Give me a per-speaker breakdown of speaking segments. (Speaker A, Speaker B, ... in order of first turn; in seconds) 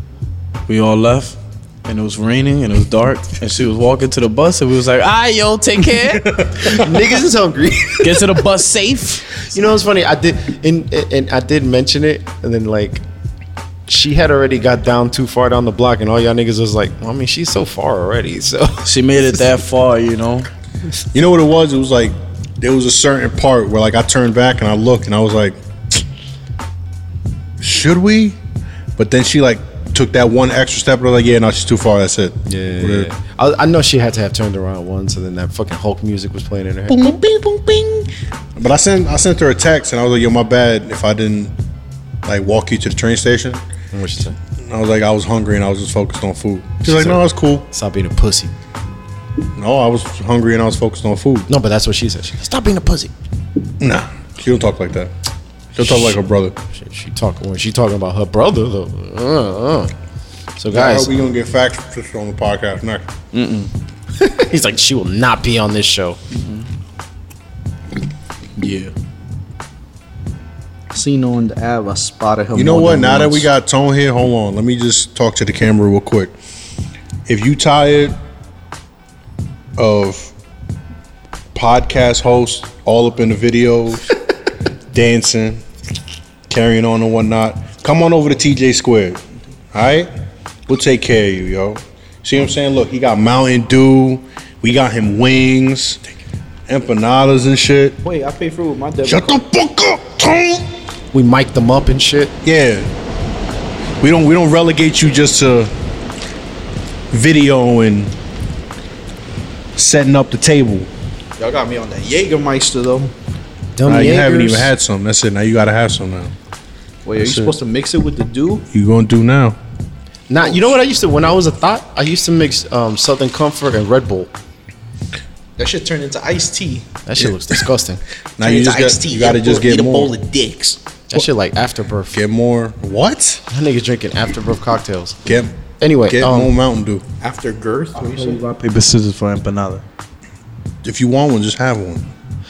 Speaker A: 0.7-6.4, 8.0-9.3, 18.8-20.5, 63.3-63.7, 66.3-66.7, 138.0-139.8
Speaker B: 6.2-6.8, 21.1-25.6, 27.6-28.4, 29.0-33.1, 36.9-41.5, 42.2-43.6, 44.6-47.7, 49.6-51.5, 53.8-55.1, 55.8-56.5, 60.7-63.1, 72.5-76.3, 77.3-78.2, 79.8-80.3, 81.5-84.1, 84.9-85.6, 86.5-89.2, 89.7-90.1, 90.7-96.0, 96.7-98.0, 99.0-100.7, 102.4-102.9, 104.0-105.7, 107.1-108.2, 109.8-110.9, 113.8-116.3, 117.2-117.5, 118.7-119.6, 127.2-127.6, 128.4-130.2, 132.1-133.4, 135.3-135.5, 136.1-137.0, 140.8-142.1
Speaker C: 6.5-8.5, 9.4-13.0, 13.9-18.9, 32.5-37.2, 43.9-44.4, 46.8-48.5, 51.5-53.1, 55.8-56.2, 56.7-59.9, 60.6-61.1, 64.2-66.2, 101.1-102.4, 113.8-114.7, 120.3-124.3, 127.0-128.0, 131.1-132.2, 133.5-135.3, 135.8-136.5
Speaker D: 68.6-68.9, 70.9-73.5, 98.0-99.4, 111.4-113.1, 117.0-118.7, 125.6-126.9, 128.4-130.8, 137.2-138.4